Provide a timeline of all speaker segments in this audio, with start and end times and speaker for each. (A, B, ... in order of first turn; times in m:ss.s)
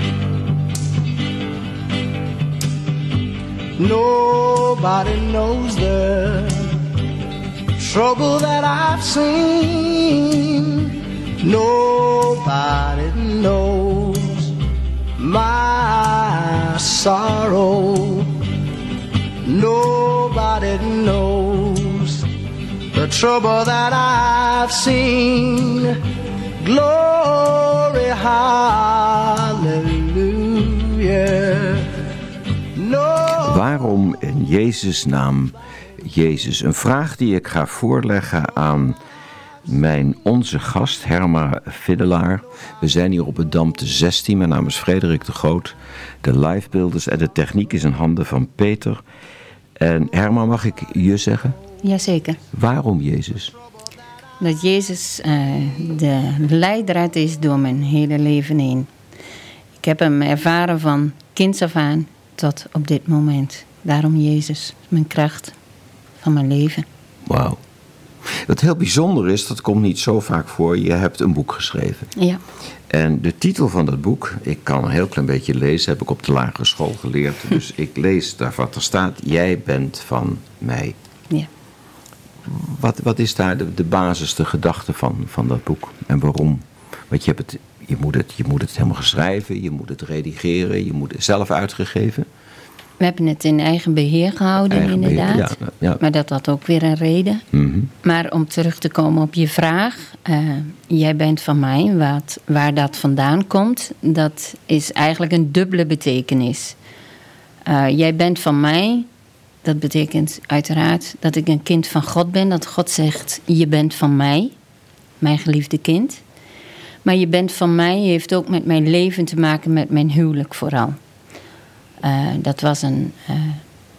0:03.8-0:06.6 A
0:07.8-0:14.5 A
0:15.2-0:18.3 A
0:19.4-0:22.2 A
0:22.9-0:26.0 A
0:26.6-0:31.9 A
0:32.8-0:33.6 A
0:33.4-0:39.0 B
0:39.6-0:49.0 B
0:49.8-0:51.6 B
0:51.8-0:52.4 C
0:52.5-0:53.5 B
0:54.4-0:58.9 C
0:59.8-1:05.5 C
1:06.2-1:06.8 C
1:07.2-1:07.6 B
1:08.2-1:12.1 B
1:12.9-1:21.0 B
1:22.4-1:32.3 B
1:33.0-1:37.4 C
1:34.7-1:36.0 B
1:37.5-1:37.9 B
1:38.0-1:46.8 C
1:47.6-1:49.1 C
1:49.6-1:54.5 C
1:55.2-1:56.2 C
1:57.0-2:01.0 C
2:02.0-2:03.6 C